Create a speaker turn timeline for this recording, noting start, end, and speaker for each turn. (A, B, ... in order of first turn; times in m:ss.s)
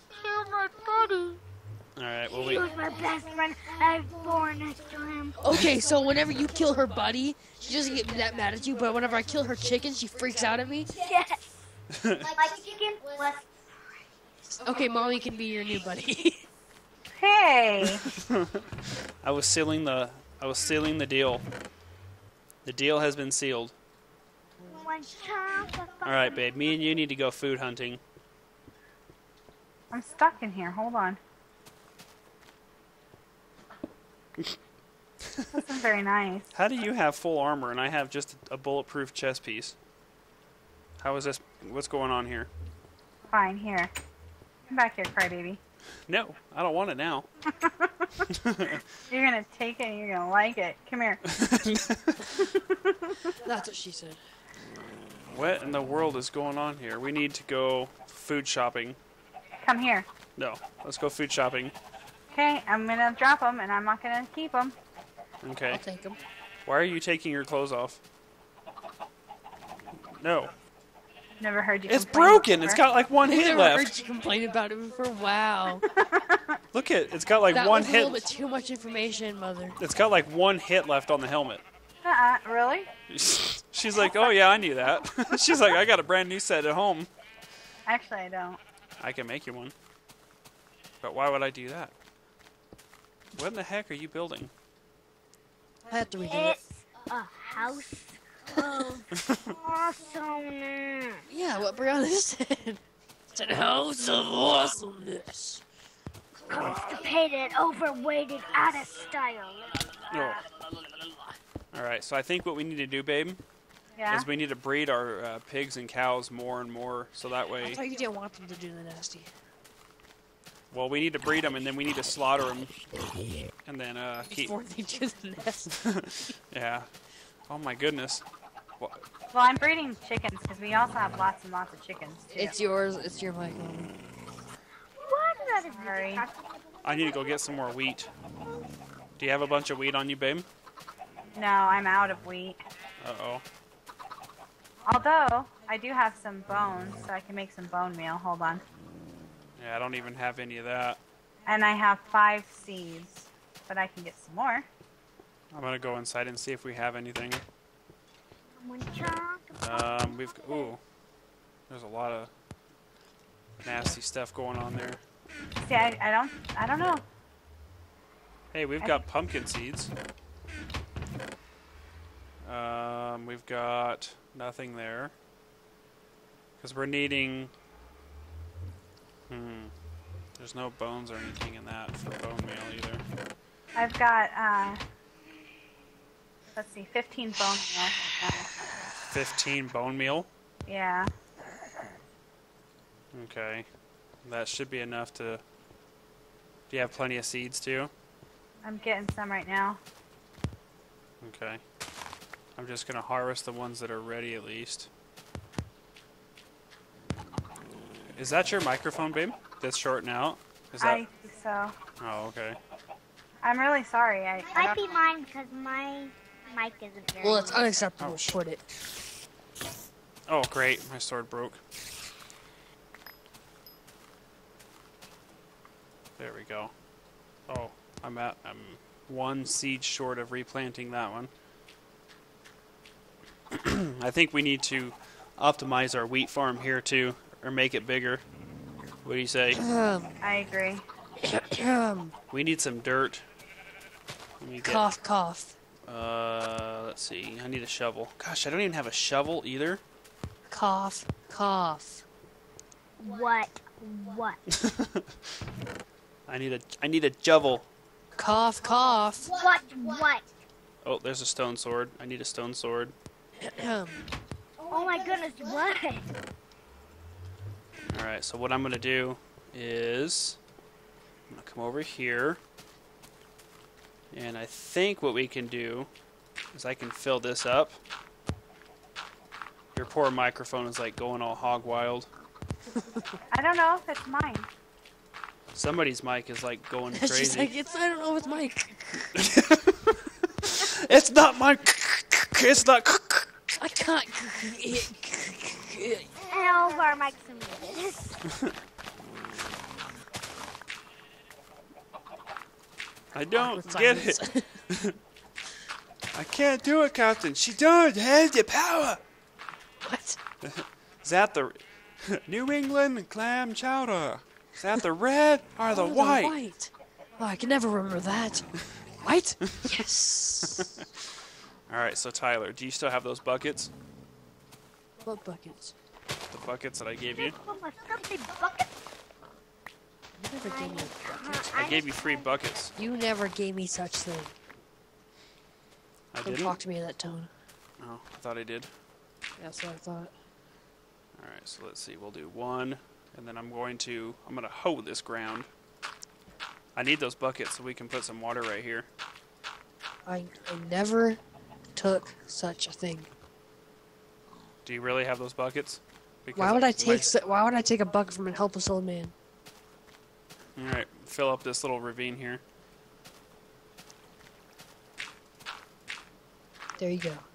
0:00.2-0:01.4 A
0:02.0-0:02.7 B
0:02.3-0:05.4 C
0:05.4-0:10.9 A
0:10.9-0:11.6 C
0:11.9-0:12.3 B
0:12.3-0:14.0 C
0:14.5-0:16.4 A
0:17.2-0:18.0 D
0:17.8-0:18.7 B
0:19.2-0:21.4 B
0:22.6-0:23.8 B
0:24.6-0:26.4 C
0:26.0-0:28.0 B
0:29.9-0:31.2 D
0:35.2-0:35.6 B
0:35.5-0:36.5 D
0:36.5-0:39.8 B
0:41.0-0:42.5 B
0:43.3-0:43.9 D
0:44.7-0:45.6 D
0:46.1-0:47.3 B
0:47.6-0:48.2 D
0:48.3-0:48.8 B
0:49.1-0:51.2 D
0:51.3-0:52.2 B
0:52.4-0:53.2 D
0:53.4-0:54.2 A
0:55.3-0:59.0 B
0:59.6-1:00.1 D
1:00.4-1:01.7 B
1:02.3-1:04.7 D
1:05.4-1:05.8 B
1:05.7-1:06.2 A
1:06.6-1:08.0 B
1:10.2-1:10.5 B
1:11.4-1:12.8 D
1:11.9-1:13.9 B
1:13.2-1:15.8 A
1:15.9-1:16.6 D
1:16.7-1:18.3 B
1:17.5-1:19.8 A
1:19.8-1:21.6 B
1:22.0-1:22.9 D
1:23.1-1:27.1 B
1:24.0-1:24.3 D
1:27.8-1:28.6 D
1:29.0-1:29.7 B
1:31.0-1:31.9 B
1:33.3-1:34.5 B
1:35.9-1:36.6 A
1:36.3-1:41.2 C
1:39.3-1:39.5 B
1:41.3-1:42.8 A
1:43.3-1:45.6 A
1:46.5-1:49.7 C
1:50.1-1:50.4 B
1:51.0-1:51.3 A
1:51.7-1:53.4 B
1:54.0-1:54.3 D
1:54.1-1:57.8 B
1:57.6-1:59.3 A
2:00.7-2:02.7 B
2:03.6-2:04.5 B
2:04.2-2:05.7 A
2:05.7-2:06.9 B
2:07.5-2:08.2 B
2:09.3-2:12.5 D
2:12.3-2:13.9 A
2:15.0-2:16.5 C
2:15.7-2:16.2 D
2:16.8-2:18.1 B
2:19.2-2:20.5 B
2:21.3-2:22.6 D
2:23.0-2:23.4 B
2:24.8-2:28.6 D
2:29.6-2:31.0 B
2:31.4-2:34.7 D
2:35.5-2:37.4 B
2:38.6-2:40.7 C
2:39.5-2:40.8 B
2:41.7-2:42.3 B
2:43.6-2:45.0 B
2:45.6-2:47.0 D
2:48.5-2:49.9 B
2:52.4-2:55.1 B
2:56.6-2:57.5 B
2:59.3-2:59.7 B
3:00.4-3:03.0 B
3:03.7-3:04.8 D
3:06.5-3:08.5 D
3:09.0-3:10.3 B
3:10.7-3:11.1 D
3:13.1-3:13.7 B
3:14.2-3:15.4 B
3:16.7-3:17.9 B
3:18.6-3:19.8 D
3:21.2-3:21.6 B
3:22.6-3:24.9 B
3:28.1-3:31.0 B
3:30.8-3:31.8 D
3:32.0-3:32.6 B
3:33.4-3:34.8 D
3:34.5-3:37.7 C
3:37.2-3:38.6 A
3:38.0-3:38.3 B
3:40.3-3:41.6 B
3:46.2-3:46.7 B
3:47.5-3:51.3 B
3:53.5-3:58.2 B
3:59.0-3:59.6 B
3:59.5-4:00.1 A
4:00.2-4:00.8 D
4:01.2-4:02.1 A
4:02.3-4:03.2 B
4:04.4-4:04.8 B
4:04.6-4:05.5 A
4:05.9-4:09.8 B
4:10.5-4:12.0 A
4:13.0-4:14.4 C
4:14.5-4:15.1 B
4:16.3-4:17.7 B
4:18.1-4:19.3 A
4:19.3-4:20.2 C
4:20.8-4:22.9 B
4:23.4-4:24.1 A
4:24.7-4:26.1 C
4:27.9-4:30.4 B
4:31.3-4:32.4 B
4:34.1-4:35.9 B
4:36.5-4:37.8 B
4:39.7-4:42.1 B
4:42.7-4:43.2 A
4:43.3-4:44.5 D
4:45.5-4:47.5 B
4:46.9-4:49.1 A
4:49.1-4:53.4 B
4:53.5-4:56.1 A
4:56.3-4:58.2 C
5:03.1-5:04.9 B
5:03.3-5:04.6 A
5:06.1-5:09.0 B
5:09.8-5:10.2 A
5:10.4-5:16.4 B
5:15.7-5:18.5 A
5:19.0-5:20.7 A
5:20.4-5:20.9 B
5:21.7-5:23.7 B
5:25.0-5:25.7 A
5:26.3-5:27.4 B
5:27.2-5:28.7 C
5:30.2-5:31.5 A
5:30.4-5:32.2 C
5:31.5-5:32.7 B
5:32.8-5:34.3 A
5:36.1-5:36.6 B
5:36.2-5:37.3 A
5:37.8-5:38.7 B
5:39.4-5:40.1 A
5:41.2-5:45.5 B
5:46.7-5:48.9 B
5:50.0-5:51.2 A
5:51.7-5:53.1 A
5:54.6-5:57.1 B
5:56.3-5:59.1 A
6:00.6-6:02.4 B
6:06.8-6:07.2 A